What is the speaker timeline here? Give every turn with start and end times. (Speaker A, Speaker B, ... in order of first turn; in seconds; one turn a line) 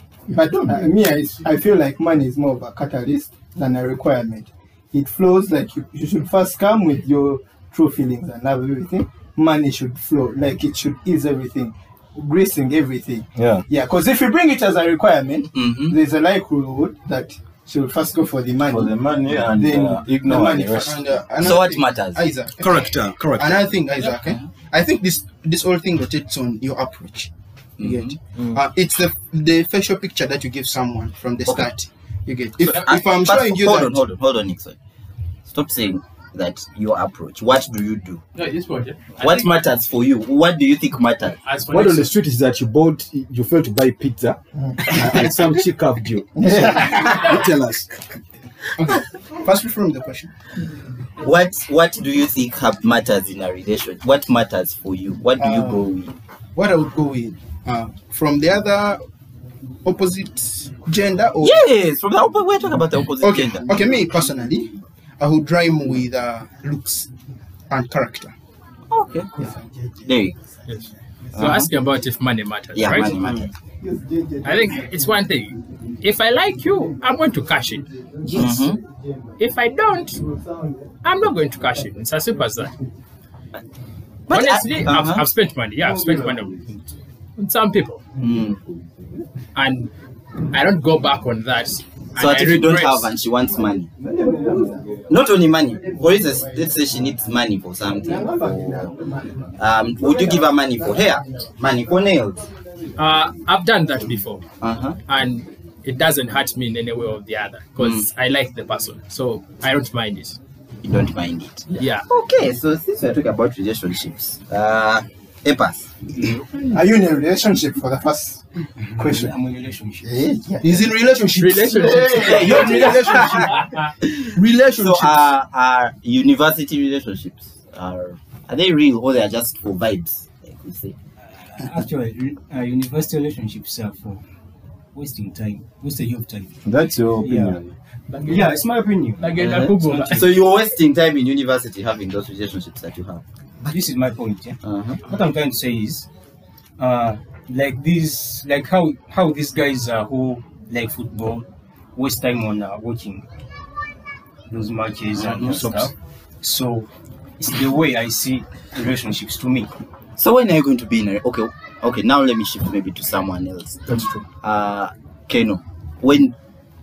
Speaker A: 0.3-20.9
Speaker B: 13.4-13.7
Speaker C: 15.5-15.9
Speaker B: 18.6-21.0
Speaker D: 20.3-34.0
Speaker C: 21.4-22.2
Speaker E: 22.6-23.7
Speaker C: 24.1-24.5
Speaker C: 27.8-28.2
Speaker C: 32.6-34.8
Speaker C: 35.5-38.2
Speaker F: 38.4-39.5
Speaker C: 39.2-41.4
Speaker F: 41.4-42.1
Speaker E: 41.7-47.9
Speaker A: 46.4-47.0
Speaker D: 48.8-50.3
Speaker C: 51.2-56.1
Speaker D: 55.4-55.9
Speaker D: 56.5-59.0
Speaker D: 59.9-61.7
Speaker C: 61.4-63.7
Speaker D: 63.2-67.1
Speaker D: 67.7-68.3
Speaker C: 68.9-69.3
Speaker A: 69.4-70.3
Speaker C: 70.0-70.3
Speaker F: 70.7-73.2
Speaker C: 71.3-71.7
Speaker C: 72.7-73.5
Speaker A: 73.8-75.1
Speaker F: 74.4-77.8
Speaker A: 77.9-79.3
Speaker C: 78.3-78.8
Speaker F: 79.4-80.2
Speaker A: 80.2-80.9
Speaker F: 81.0-82.7
Speaker C: 84.3-85.2
Speaker F: 84.3-88.0
Speaker C: 88.2-88.6
Speaker F: 89.5-89.9
Speaker F: 90.5-93.1
Speaker C: 92.2-93.9
Speaker A: 94.0-95.0
Speaker B: 94.5-94.8
Speaker C: 95.1-98.5
Speaker A: 95.9-96.5
Speaker A: 98.0-101.2
Speaker C: 99.6-102.5
Speaker F: 103.0-104.5
Speaker C: 104.6-105.0
Speaker F: 105.1-110.4
Speaker C: 107.8-108.1
Speaker C: 110.8-115.9
Speaker F: 111.7-112.1
Speaker A: 116.6-118.4
Speaker G: 118.9-120.1
Speaker A: 119.0-119.3
Speaker A: 120.0-120.9
Speaker D: 120.6-123.7
Speaker F: 121.3-123.9
Speaker A: 121.7-122.8
Speaker C: 122.1-130.9
Speaker D: 124.3-125.3
Speaker G: 131.5-134.2
Speaker G: 134.9-136.6
Speaker B: 136.6-137.7
Speaker G: 137.2-137.6
Speaker F: 138.1-140.2
Speaker G: 138.2-140.3
Speaker C: 139.4-143.2
Speaker G: 143.7-146.1
Speaker C: 144.6-145.0
Speaker G: 146.8-153.2
Speaker G: 154.5-159.7
Speaker C: 155.1-155.6
Speaker C: 160.2-166.3
Speaker E: 163.9-164.2